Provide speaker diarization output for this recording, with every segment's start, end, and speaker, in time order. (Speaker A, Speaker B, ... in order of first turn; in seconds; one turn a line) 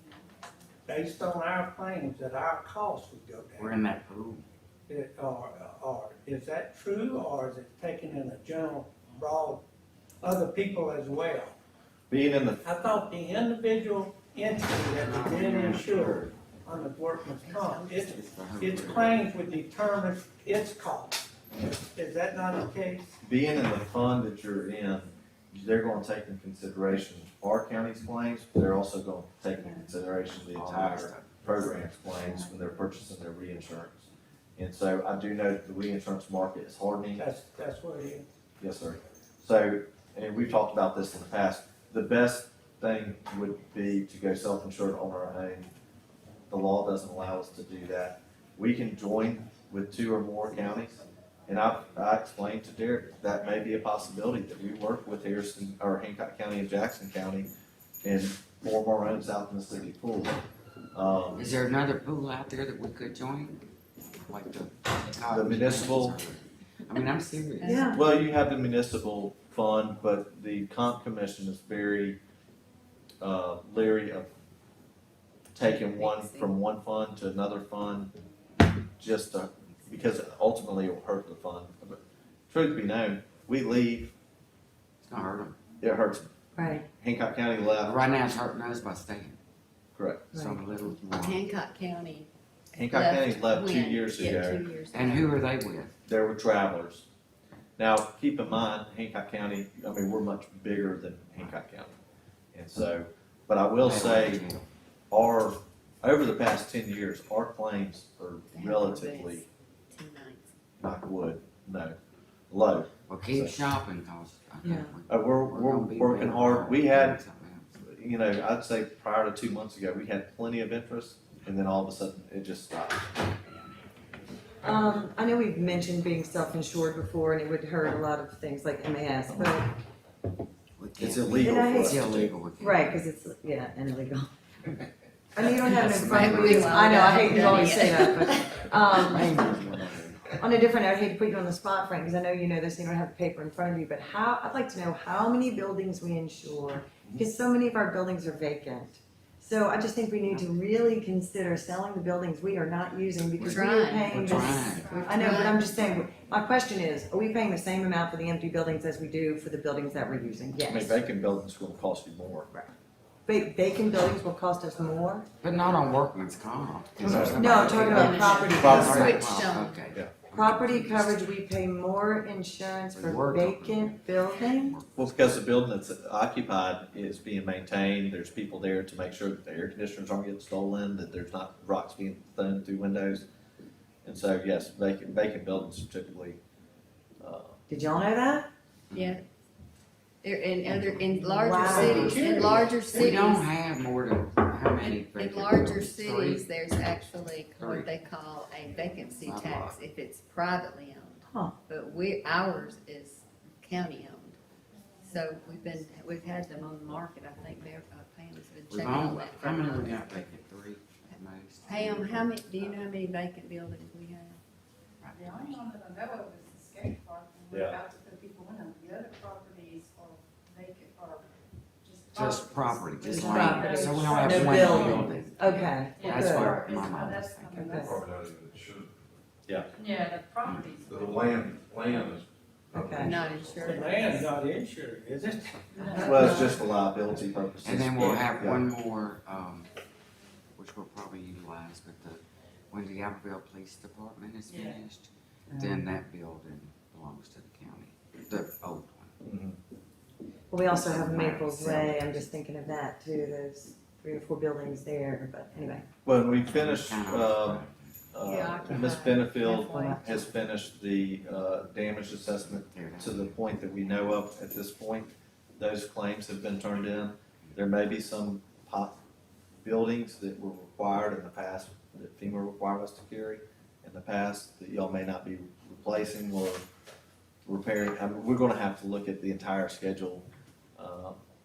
Speaker A: 0.9-3.8
Speaker B: 3.6-4.5
Speaker A: 4.9-9.7
Speaker A: 10.2-11.6
Speaker C: 12.1-12.6
Speaker A: 12.6-23.2
Speaker B: 14.9-16.3
Speaker D: 17.3-17.9
Speaker B: 18.0-19.3
Speaker C: 23.2-37.2
Speaker B: 30.5-31.4
Speaker A: 37.2-38.3
Speaker C: 38.6-45.7
Speaker C: 46.5-57.5
Speaker C: 58.0-60.4
Speaker C: 60.9-61.4
Speaker B: 61.4-63.6
Speaker B: 64.3-67.9
Speaker C: 65.3-66.2
Speaker D: 67.6-68.0
Speaker E: 67.6-68.0
Speaker C: 67.9-72.2
Speaker C: 73.2-74.3
Speaker C: 75.5-78.1
Speaker D: 75.7-76.5
Speaker C: 79.0-84.2
Speaker B: 85.0-85.6
Speaker C: 85.8-86.3
Speaker E: 86.6-86.9
Speaker C: 86.9-88.0
Speaker B: 87.8-89.4
Speaker C: 90.0-90.3
Speaker E: 90.3-90.6
Speaker B: 90.3-91.5
Speaker D: 91.2-92.3
Speaker C: 92.7-94.7
Speaker D: 92.9-95.4
Speaker B: 94.9-95.9
Speaker C: 96.1-97.1
Speaker C: 97.8-101.9
Speaker C: 102.5-104.5
Speaker B: 103.8-104.7
Speaker C: 105.1-109.4
Speaker D: 108.5-110.5
Speaker C: 110.8-112.0
Speaker C: 112.5-113.6
Speaker B: 113.1-117.8
Speaker E: 114.6-115.0
Speaker C: 115.1-117.2
Speaker C: 117.8-123.2
Speaker E: 124.6-129.7
Speaker B: 130.8-133.0
Speaker C: 131.0-132.3
Speaker E: 131.3-132.0
Speaker E: 132.6-134.3
Speaker E: 135.3-139.4
Speaker B: 135.6-137.7
Speaker D: 136.0-138.7
Speaker B: 138.9-140.4
Speaker E: 140.4-161.0
Speaker B: 153.4-155.3
Speaker D: 153.4-155.6
Speaker C: 160.7-162.6
Speaker E: 163.3-165.3
Speaker B: 165.4-171.2
Speaker C: 167.0-167.8
Speaker E: 167.1-169.2
Speaker D: 167.7-169.8
Speaker C: 168.6-169.2
Speaker E: 170.3-174.8
Speaker B: 172.9-175.1
Speaker C: 175.0-183.2
Speaker C: 184.1-186.4
Speaker C: 187.2-187.6
Speaker E: 187.7-188.5
Speaker B: 188.9-189.2
Speaker D: 188.9-189.2
Speaker D: 190.2-193.5
Speaker B: 190.7-191.0
Speaker E: 191.3-192.3
Speaker A: 191.6-193.2
Speaker B: 191.7-196.5
Speaker D: 194.8-204.4
Speaker B: 197.6-197.9
Speaker B: 199.2-199.8
Speaker E: 201.3-201.6
Speaker D: 205.0-210.3
Speaker B: 208.7-212.8
Speaker D: 211.7-214.4
Speaker B: 215.0-215.6
Speaker F: 215.4-221.2
Speaker C: 217.5-217.8
Speaker F: 221.9-225.2
Speaker B: 222.1-227.7
Speaker E: 223.1-226.6
Speaker D: 223.3-224.1
Speaker F: 226.0-227.9
Speaker E: 227.5-228.1
Speaker G: 227.8-228.9
Speaker F: 229.8-231.8
Speaker B: 230.4-230.8
Speaker G: 230.9-233.6
Speaker E: 232.7-233.2
Speaker D: 233.0-234.3
Speaker A: 233.6-236.3
Speaker F: 235.8-236.4
Speaker C: 236.0-238.6
Speaker D: 236.1-236.5
Speaker B: 237.6-239.7
Speaker B: 240.6-249.1
Speaker E: 245.5-245.8
Speaker C: 249.2-249.6
Speaker E: 250.5-255.9
Speaker B: 250.7-252.3
Speaker C: 256.1-269.0
Speaker B: 256.4-258.0
Speaker D: 258.2-260.0
Speaker E: 259.4-260.2
Speaker B: 262.4-263.4
Speaker C: 269.6-276.7
Speaker C: 277.5-280.3
Speaker C: 280.8-281.2